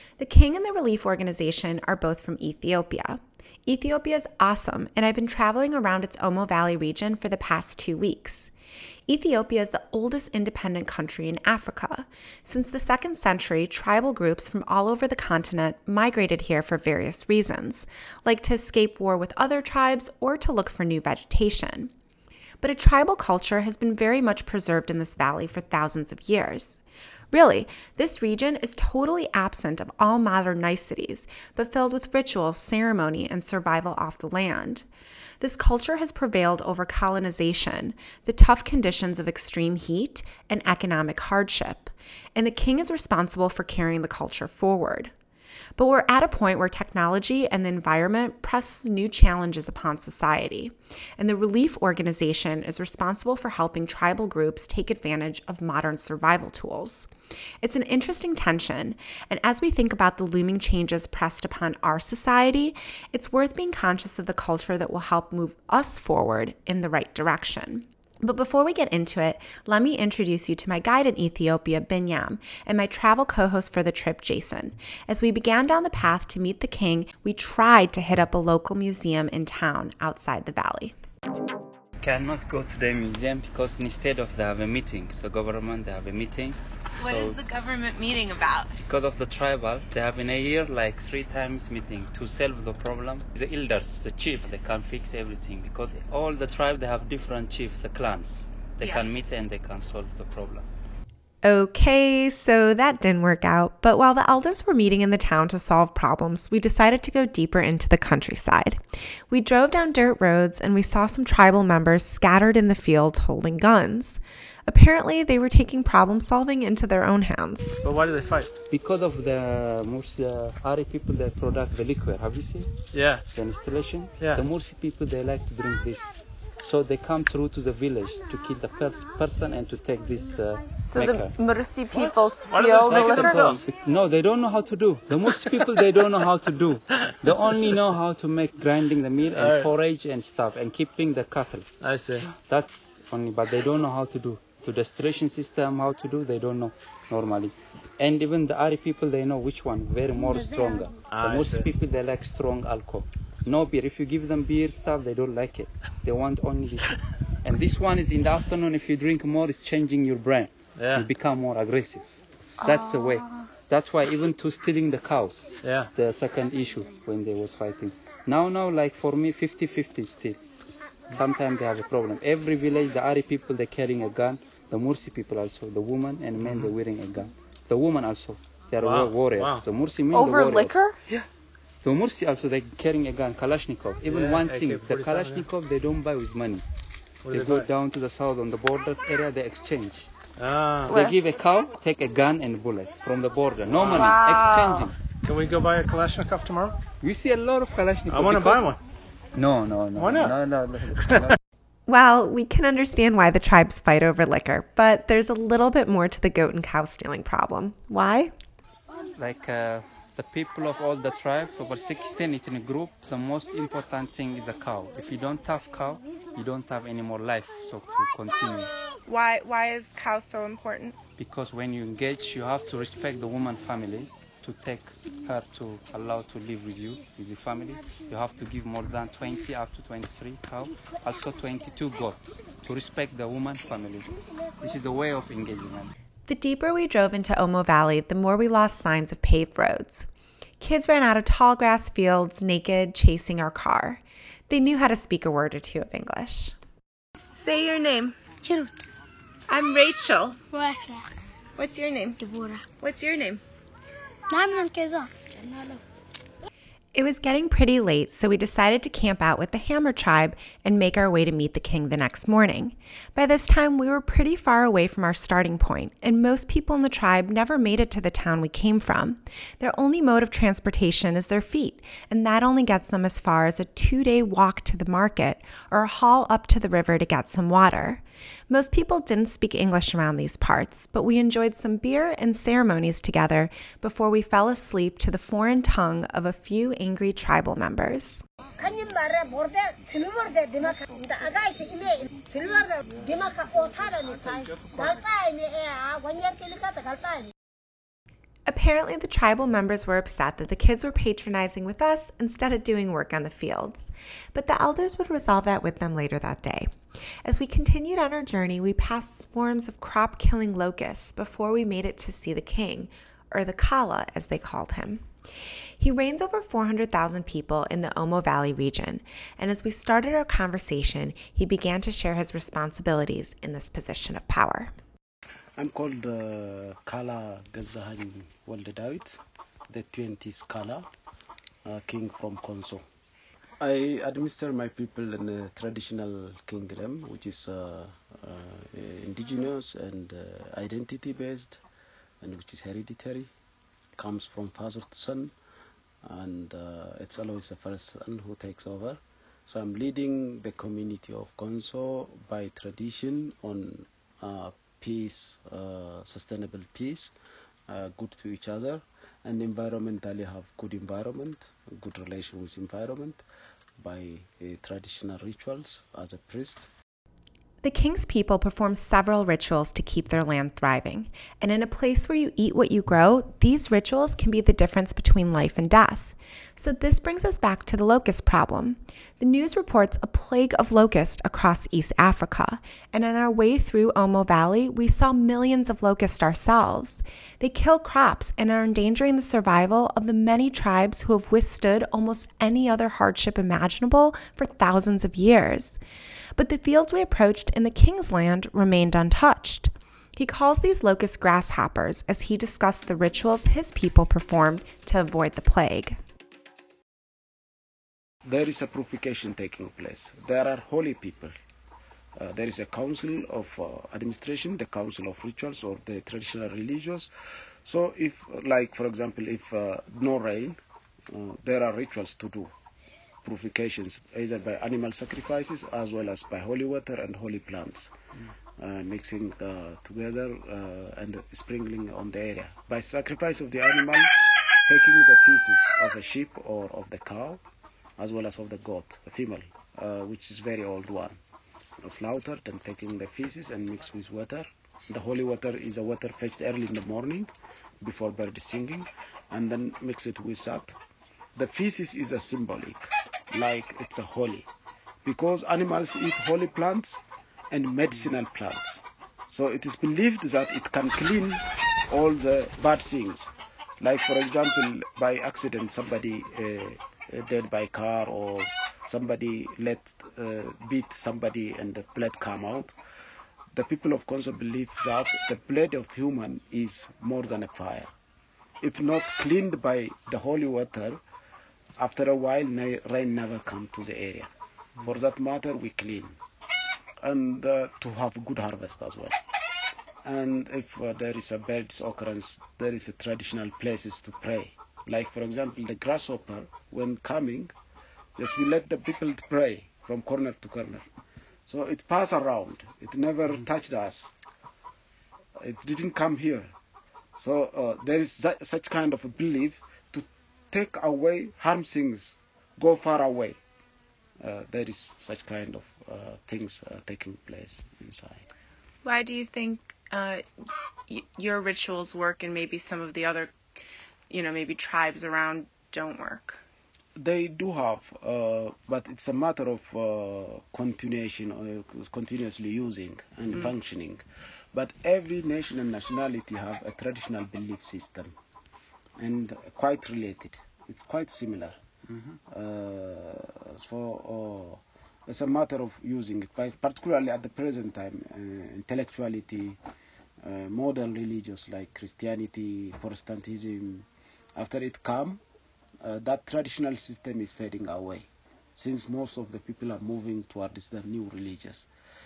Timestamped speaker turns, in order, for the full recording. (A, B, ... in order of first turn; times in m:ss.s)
0:00.2-0:08.5 A
0:09.1-0:21.9 A
0:22.6-0:26.8 A
0:27.3-0:34.9 A
0:35.4-0:45.1 A
0:45.8-0:57.1 A
0:57.6-1:21.0 A
1:22.0-1:27.4 B
1:27.0-1:28.8 C
1:28.9-1:40.7 B
1:41.4-1:57.8 A
1:57.8-1:58.5 D
1:58.7-2:02.8 B
2:02.9-2:03.2 D
2:03.3-2:11.3 B
2:04.2-2:04.4 D
2:10.8-2:13.5 C
2:11.9-2:13.6 D
2:12.8-2:21.7 B
2:19.4-2:19.7 D
2:21.8-2:22.3 D
2:22.4-2:42.0 B
2:31.1-2:31.7 D
2:40.8-2:41.1 D
2:42.6-2:50.4 B
2:42.6-2:43.4 C
2:45.6-2:45.9 D
2:51.1-3:00.8 B
2:56.4-2:56.7 D
2:58.8-2:59.7 D
3:00.1-3:01.0 C
3:01.8-3:06.6 B
3:04.1-3:05.5 D
3:07.2-3:07.7 D
3:07.3-3:10.1 B
3:10.4-3:10.9 D
3:10.9-3:15.0 B
3:10.9-3:11.2 C
3:13.7-3:14.1 D
3:13.9-3:14.9 C
3:15.2-3:16.8 D
3:17.0-3:18.8 B
3:18.1-3:18.8 D
3:19.3-3:21.4 B
3:20.0-3:20.4 D
3:21.0-3:21.3 D
3:21.9-3:28.3 A
3:29.2-3:38.7 B
3:39.1-3:41.0 C
3:41.2-3:55.9 B
3:56.3-4:00.1 A
4:00.6-4:06.6 A
4:07.4-4:08.2 C
4:08.4-4:08.7 E
4:09.5-4:10.4 C
4:10.5-4:11.2 E
4:11.6-4:13.4 C
4:14.3-4:15.8 E
4:17.0-4:48.2 A
4:48.6-4:57.3 E
4:58.5-5:06.7 A
5:07.2-5:15.0 A
5:15.8-5:24.7 A
5:25.6-5:30.9 F
5:31.6-5:32.8 F
5:33.6-5:41.6 F
5:42.2-5:43.3 F
5:44.0-5:45.3 F
5:46.0-5:57.1 F
5:57.7-6:03.2 F
6:03.8-6:06.7 F
6:07.6-6:35.8 A
6:36.4-6:46.0 A
6:48.2-6:51.3 F
6:52.2-6:57.1 F
6:57.6-7:02.5 F
7:03.2-7:07.9 F
7:08.6-7:17.4 F
7:18.0-7:21.2 F
7:21.8-7:30.8 F
7:31.4-7:34.5 F
7:35.0-7:52.8 F
7:53.5-7:57.9 F
7:58.6-8:01.0 F
8:01.8-8:06.2 F
8:07.0-8:09.2 F
8:10.0-8:17.5 F
8:18.2-8:20.8 F
8:21.5-8:24.1 F
8:25.4-8:26.5 F
8:27.2-8:33.4 F
8:34.2-8:38.3 F
8:38.8-8:40.2 C
8:40.9-8:43.4 C
8:44.1-8:46.4 C
8:47.0-8:58.1 F
8:59.0-9:01.6 F
9:02.3-9:09.6 F
9:10.2-9:15.2 F
9:15.8-9:21.7 F